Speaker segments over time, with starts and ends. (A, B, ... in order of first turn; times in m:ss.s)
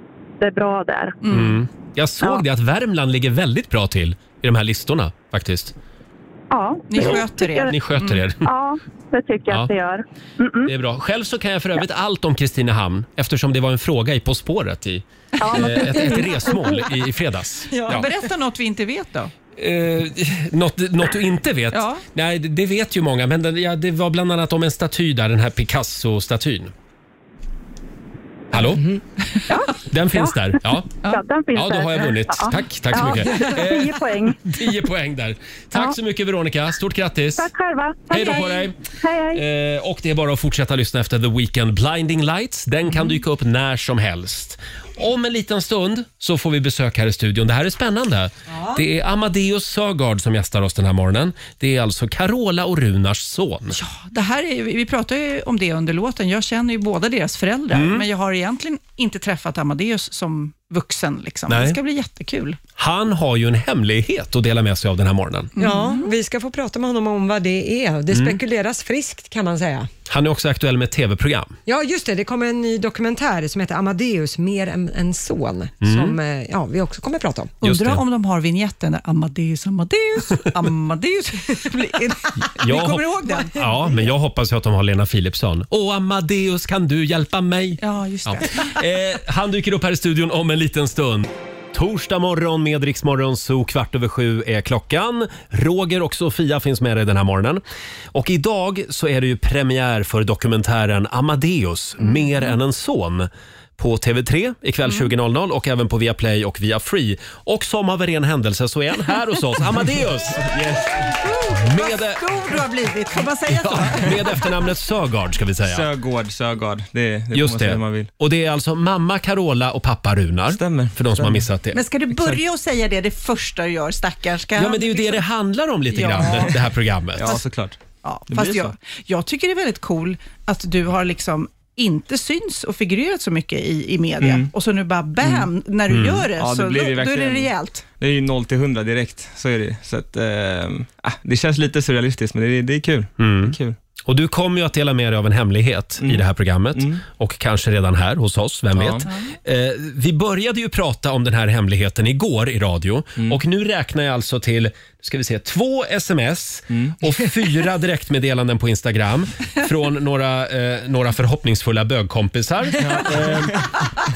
0:00.4-0:01.2 A
0:01.2-0:01.6 B
0:01.3-0:05.7 C
0:06.5-0:07.7 A
0:06.9-0:08.2 B
0:07.0-0:08.5 C
0:08.4-0:10.7 A
0:10.6-0:18.0 C
0:15.4-0:16.2 B
0:17.7-0:18.1 D
0:17.9-0:19.3 B
0:19.6-0:26.7 C
0:21.7-0:22.0 B
0:28.5-0:28.8 C
0:28.5-0:29.0 D
0:29.3-0:29.7 B
0:29.9-0:30.9 C
0:31.0-0:34.4 A
0:31.5-0:37.5 C
0:37.4-0:39.4 A
0:38.1-0:38.8 C
0:39.3-0:53.8 C
0:48.5-0:48.8 D
0:53.7-1:02.6 B
0:57.7-0:58.0 C
1:01.5-1:01.8 C
1:02.8-1:05.5 C
1:05.6-1:06.1 B
1:05.6-1:09.9 D
1:08.1-1:08.4 C
1:10.1-1:11.6 C
1:11.6-1:17.5 D
1:15.8-1:16.2 C
1:17.6-1:18.0 C
1:17.6-1:23.6 B
1:22.5-1:37.6 C
1:27.8-1:28.8 B
1:38.1-1:50.5 C
1:50.4-1:51.0 E
1:51.0-1:54.5 B
1:51.5-1:52.2 C
1:53.5-1:55.9 C
1:55.6-1:58.1 E
1:57.3-2:01.8 C
2:00.5-2:01.4 E
2:01.7-2:05.2 B
2:04.5-2:07.4 C
2:05.9-2:06.5 B
2:07.2-2:08.7 E
2:08.0-2:17.8 B
2:14.2-2:14.5 E
2:15.9-2:16.3 C
2:16.4-2:23.8 E
2:23.2-2:43.6 C
2:26.0-2:27.0 E
2:28.7-2:29.1 E
2:29.0-2:29.4 B
2:36.7-2:37.0 E
2:42.8-2:43.7 E